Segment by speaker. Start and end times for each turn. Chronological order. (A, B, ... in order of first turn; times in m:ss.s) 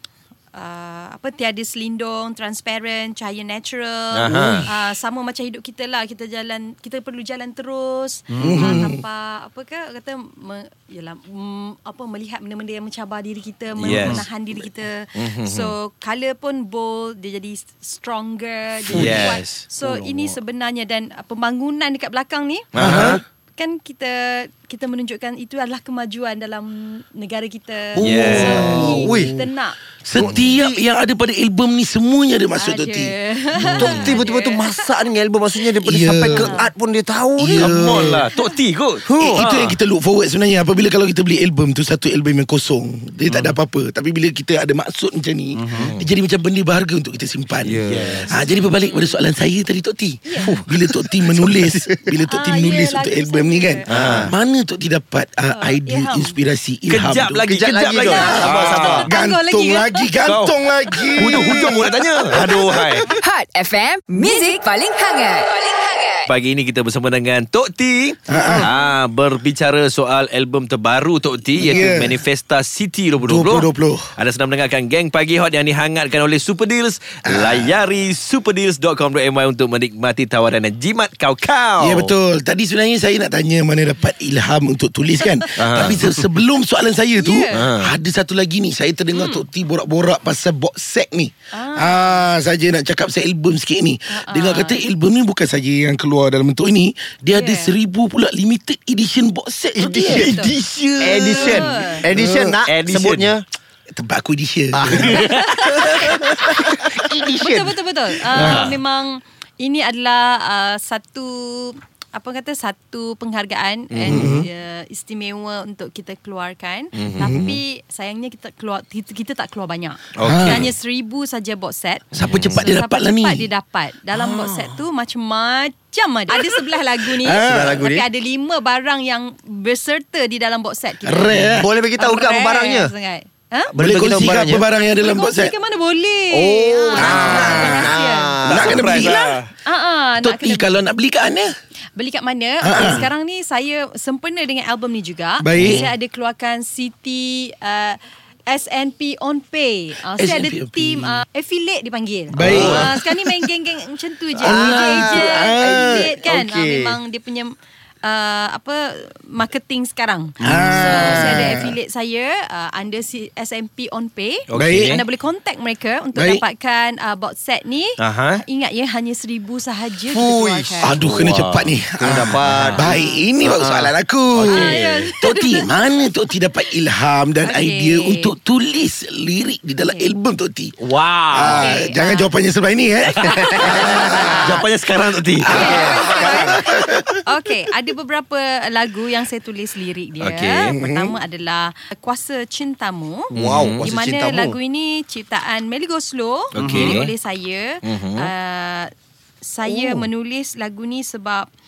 0:00.5-0:29.8 A
0:04.1-0:04.7 B
0:04.3-0:04.7 C
0:08.3-0:08.8 C
0:08.4-0:09.0 D
0:13.8-0:14.3 B
0:13.9-0:14.2 C
0:15.2-0:15.7 B
0:18.9-0:19.6 B
0:18.9-0:19.2 C
0:19.8-0:20.4 C
0:22.7-0:23.2 B
0:22.8-0:23.2 D
0:28.0-0:29.5 D
0:28.0-0:28.8 B
0:28.5-0:29.4 C
0:30.0-0:34.0 D
0:30.2-0:30.8 C
0:30.2-0:30.5 B
0:32.6-0:34.9 A
0:33.7-0:38.0 C
0:35.8-0:36.7 D
0:36.3-0:36.7 A
0:37.4-0:38.3 D
0:37.6-0:39.8 B
0:39.1-0:39.5 C
0:39.2-0:57.6 D
0:43.3-0:43.6 B
0:45.5-0:46.0 C
0:45.8-0:46.1 B
0:47.6-0:48.4 C
0:47.8-0:48.5 B
0:48.5-0:49.2 A
0:50.3-0:50.6 A
0:50.4-0:52.1 C
0:52.3-0:53.9 A
0:53.9-0:54.3 B
0:53.9-0:54.3 C
0:55.5-0:56.4 A
0:56.9-0:59.1 B
0:57.5-0:59.1 C
0:58.0-1:00.1 A
0:58.2-1:03.1 D
1:00.2-1:00.6 B
1:01.0-1:01.8 A
1:01.2-1:03.1 B
1:03.1-1:06.3 E
1:06.3-1:22.1 B
1:08.3-1:08.7 D
1:11.6-1:12.2 D
1:13.2-1:14.2 D
1:17.3-1:17.7 D
1:21.8-1:40.4 D
1:25.6-1:26.3 B
1:27.2-1:27.6 A
1:27.5-1:28.0 B
1:29.1-1:29.5 A
1:31.5-1:32.3 A
1:34.1-1:34.8 A
1:37.3-1:37.8 A
1:39.8-1:43.4 C
1:39.8-1:42.0 A
1:40.3-1:40.6 B
1:41.1-1:41.5 B
1:42.1-1:42.6 D
1:42.7-1:43.4 B
1:43.9-1:47.2 D
1:44.7-1:47.7 C
1:45.0-1:45.3 B
1:45.3-1:46.4 A
1:47.4-2:13.7 A
1:48.3-1:48.8 D
1:48.4-1:48.8 B
1:53.9-1:54.3 B
1:54.1-1:54.5 D
1:57.0-1:57.4 B
1:57.2-1:57.6 D
2:00.2-2:00.7 B
2:00.2-2:00.7 D
2:02.1-2:03.5 D
2:02.2-2:02.7 B
2:04.1-2:04.7 D
2:07.2-2:07.8 D
2:07.4-2:08.1 C
2:11.0-2:11.7 D
2:11.5-2:12.9 C
2:13.7-2:15.6 D
2:13.8-2:14.6 C
2:15.0-2:20.8 A
2:16.3-2:19.1 C
2:16.9-2:19.4 D
2:18.4-2:19.5 B
2:20.2-2:21.5 D
2:22.0-2:37.5 A
2:22.6-2:23.1 D
2:25.4-2:25.9 D
2:30.2-2:31.2 D
2:32.3-2:33.5 D
2:32.4-2:32.9 B
2:32.4-2:32.9 C
2:34.4-2:36.1 D
2:34.4-2:37.0 C
2:38.0-2:51.0 A
2:40.4-2:41.4 C
2:40.4-2:41.8 D
2:44.5-2:45.0 B
2:44.6-2:45.0 D
2:46.2-2:46.4 D
2:48.0-2:48.4 B
2:50.1-2:50.9 C
2:50.8-3:00.8 D
2:51.0-2:52.9 B
2:52.0-2:53.9 C
2:52.8-2:53.2 A
2:54.3-2:55.2 B
2:54.5-2:55.7 A
2:57.4-2:58.3 A
2:59.9-3:00.1 A
3:00.8-3:01.8 B
3:01.3-3:04.3 D
3:01.5-3:02.3 A
3:03.2-3:04.7 A
3:03.3-3:04.5 C
3:03.8-3:05.8 B
3:05.4-3:07.2 D
3:05.5-3:18.9 A
3:05.5-3:06.8 C
3:10.2-3:10.8 B
3:10.7-3:11.1 D
3:13.3-3:14.6 C
3:13.3-3:13.9 B
3:16.5-3:17.1 B
3:16.6-3:17.0 C
3:17.8-3:18.3 B
3:19.4-3:21.5 A
3:19.7-3:20.1 C